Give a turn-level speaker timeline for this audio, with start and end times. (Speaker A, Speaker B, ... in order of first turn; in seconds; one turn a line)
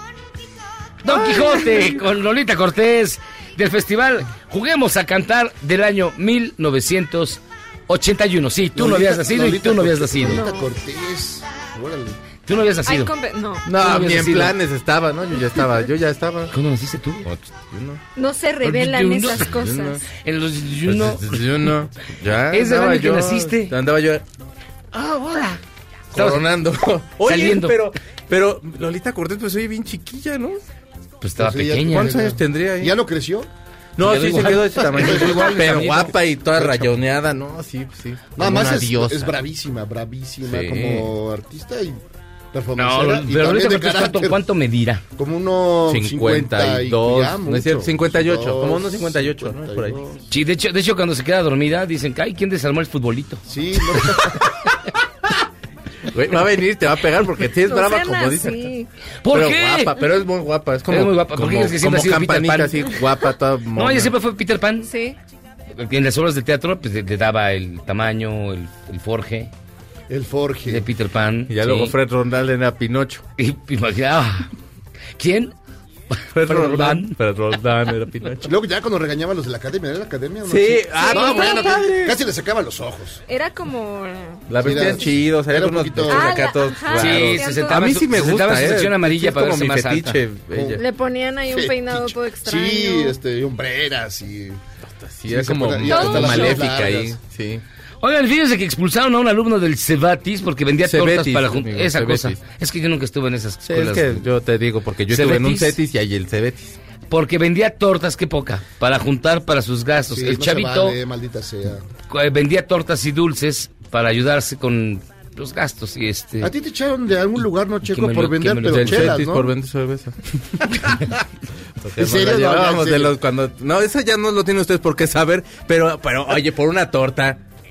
Speaker A: 1.0-10.4
Speaker B: 1.1-1.9
Speaker C: 8.7-12.2
Speaker D: 10.3-10.7
Speaker A: 12.4-13.1
Speaker D: 12.8-13.7
Speaker B: 13.7-16.5
Speaker A: 13.8-14.6
Speaker A: 16.5-17.2
Speaker B: 17.2-18.0
Speaker D: 18.1-20.0
Speaker A: 18.6-19.5
Speaker B: 19.3-20.0
Speaker A: 20.2-21.7
Speaker B: 20.9-24.2
Speaker A: 22.5-23.7
Speaker A: 24.9-25.6
Speaker B: 26.1-30.6
Speaker A: 26.1-26.5
Speaker A: 27.2-27.8
Speaker A: 31.2-32.2
Speaker C: 31.4-33.5
Speaker B: 31.9-32.9
Speaker B: 34.0-39.3
Speaker A: 34.0-36.1
Speaker C: 34.9-36.0
Speaker C: 36.6-36.9
Speaker C: 38.4-42.0
Speaker B: 40.5-41.1
Speaker C: 42.5-44.4
Speaker A: 42.8-45.0
Speaker C: 45.1-50.2
Speaker B: 45.9-50.2
Speaker A: 50.3-53.4
Speaker C: 53.5-54.4
Speaker B: 56.1-58.7
Speaker D: 57.7-58.9
Speaker A: 59.2-60.0
Speaker B: 59.3-64.1
Speaker A: 60.9-63.0
Speaker A: 63.7-64.9
Speaker D: 64.8-65.2
Speaker A: 65.7-69.5
Speaker C: 70.1-70.8
Speaker A: 70.7-71.9
Speaker B: 71.5-73.2
Speaker A: 73.4-74.5
Speaker A: 75.2-75.5
Speaker B: 76.3-78.5
Speaker A: 76.4-77.1
Speaker C: 78.5-83.2
Speaker B: 80.5-82.2
Speaker D: 80.9-81.8
Speaker D: 83.3-84.5
Speaker B: 84.5-90.8
Speaker C: 84.5-86.5
Speaker D: 86.1-88.0
Speaker A: 86.9-90.2
Speaker C: 90.5-90.8
Speaker D: 90.8-93.2
Speaker C: 91.5-94.6
Speaker B: 94.8-97.6
Speaker C: 95.3-97.2
Speaker D: 95.8-96.6
Speaker A: 98.0-104.3
Speaker B: 100.8-102.4
Speaker B: 103.6-106.8
Speaker A: 105.1-105.8
Speaker A: 107.1-111.0
Speaker C: 110.1-111.8
Speaker A: 112.1-116.5
Speaker C: 116.4-119.5
Speaker A: 117.8-119.2
Speaker B: 118.7-120.7
Speaker B: 121.8-127.4
Speaker C: 122.0-123.2